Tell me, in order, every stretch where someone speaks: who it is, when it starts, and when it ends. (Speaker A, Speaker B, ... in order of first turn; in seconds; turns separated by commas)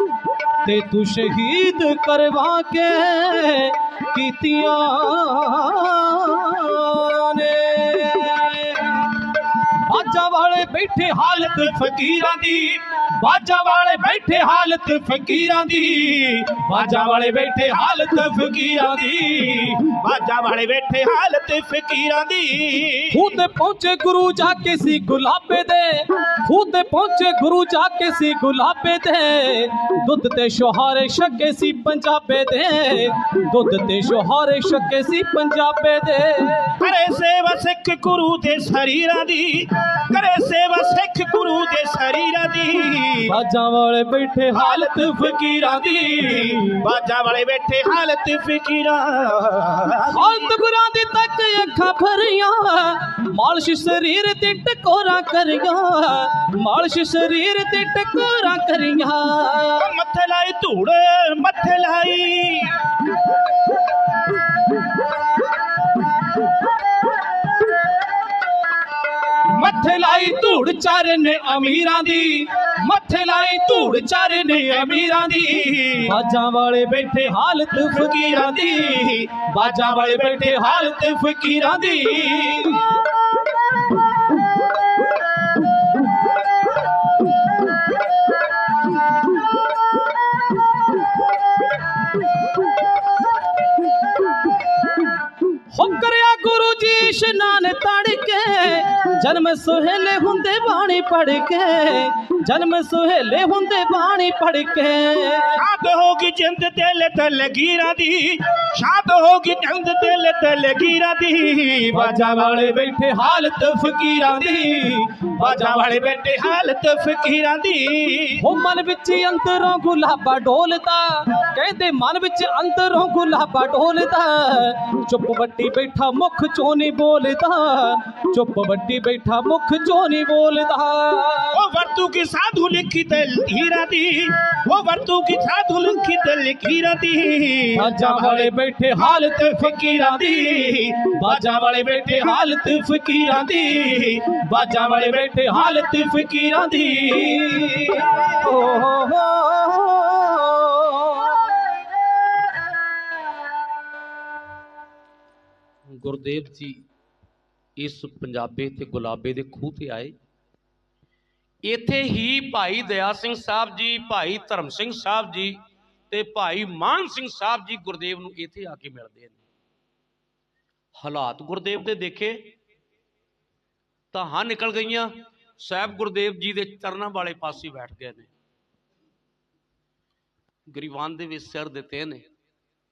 Speaker A: 0.6-19.8, Speaker B: 17.2-17.7, Speaker B: 19.7-23.3, Speaker A: 23.1-36.8, Speaker B: 36.8-43.3, Speaker A: 43.2-46.8, Speaker B: 46.5-50.3, Speaker A: 50.1-59.9, Speaker B: 59.8-62.8, Speaker A: 69.5-82.9, Speaker B: 75.5-76.1, Speaker B: 77.9-79.1, Speaker A: 95.7-105.6, Speaker B: 105.5-112.3, Speaker A: 111.9-115.8, Speaker B: 115.4-118.4, Speaker A: 118.4-131.6, Speaker B: 131.5-138.0, Speaker A: 137.7-151.8, Speaker B: 139.6-139.9, Speaker B: 140.6-141.0, Speaker C: 155.9-156.8, Speaker C: 157.8-160.1, Speaker C: 161.6-165.6, Speaker C: 166.1-169.4, Speaker C: 171.0-172.5, Speaker C: 174.1-178.3, Speaker C: 180.7-182.2